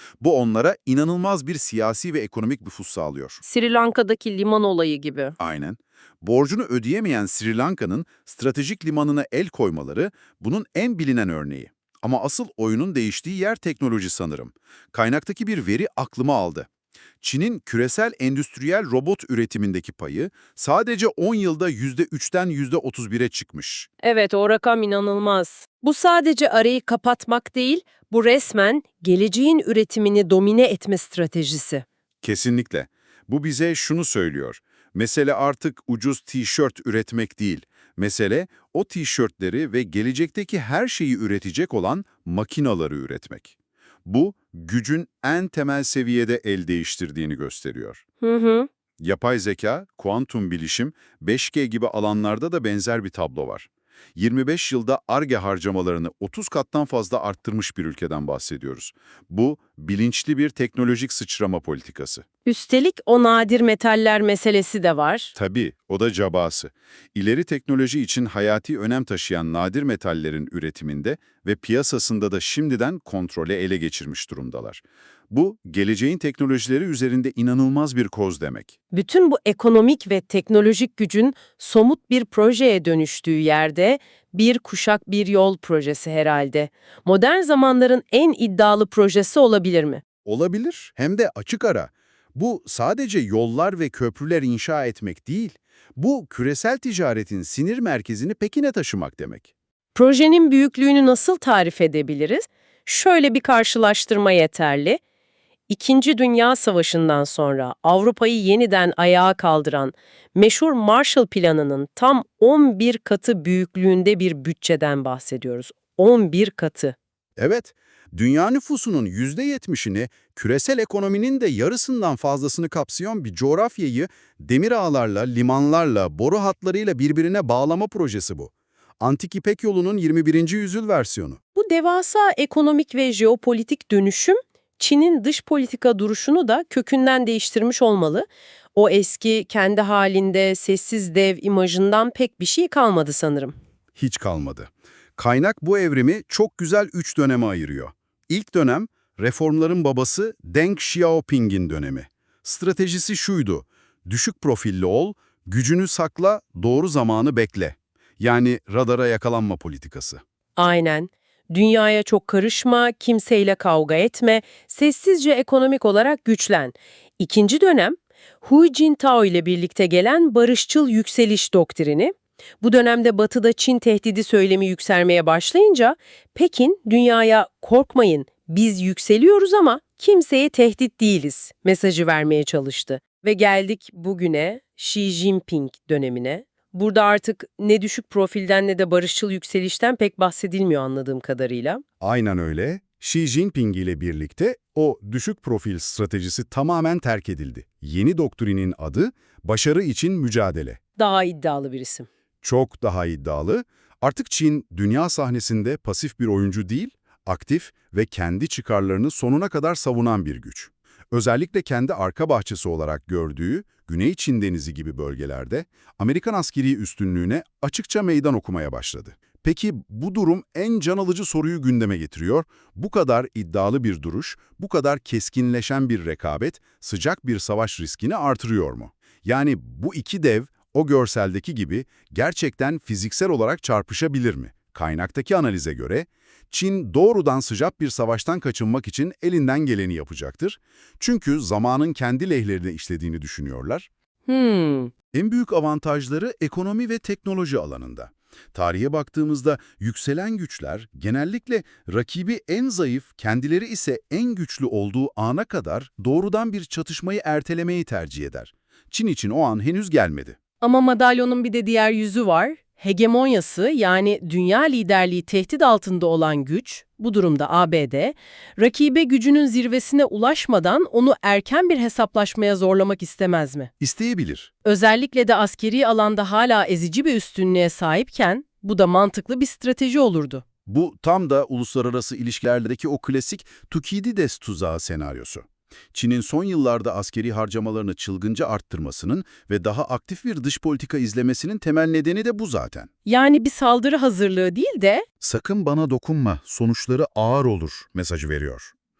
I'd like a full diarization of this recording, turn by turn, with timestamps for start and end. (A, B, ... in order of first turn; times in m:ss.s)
0:00.2-0:03.4 A
0:03.4-0:05.4 B
0:05.4-0:16.7 A
0:17.2-0:23.9 A
0:24.0-0:31.8 B
0:32.2-0:48.0 A
0:48.2-0:48.7 B
0:49.0-1:02.2 A
1:02.4-1:05.3 B
1:05.4-1:18.7 A
1:18.9-1:30.0 B
1:30.2-1:39.5 A
1:40.0-1:45.0 B
1:45.7-1:57.0 B
1:57.4-2:11.4 A
2:11.6-2:23.6 B
2:24.0-2:40.2 A
2:40.6-3:11.8 B
3:12.0-3:20.8 A
3:21.0-3:22.1 B
3:22.4-4:03.9 A
4:04.3-4:04.9 B
4:05.1-4:20.4 A
4:20.6-4:33.7 B
4:33.8-4:34.5 A
4:34.6-4:40.4 B
4:40.7-4:52.9 A
4:53.0-4:55.0 B
4:55.2-4:58.7 A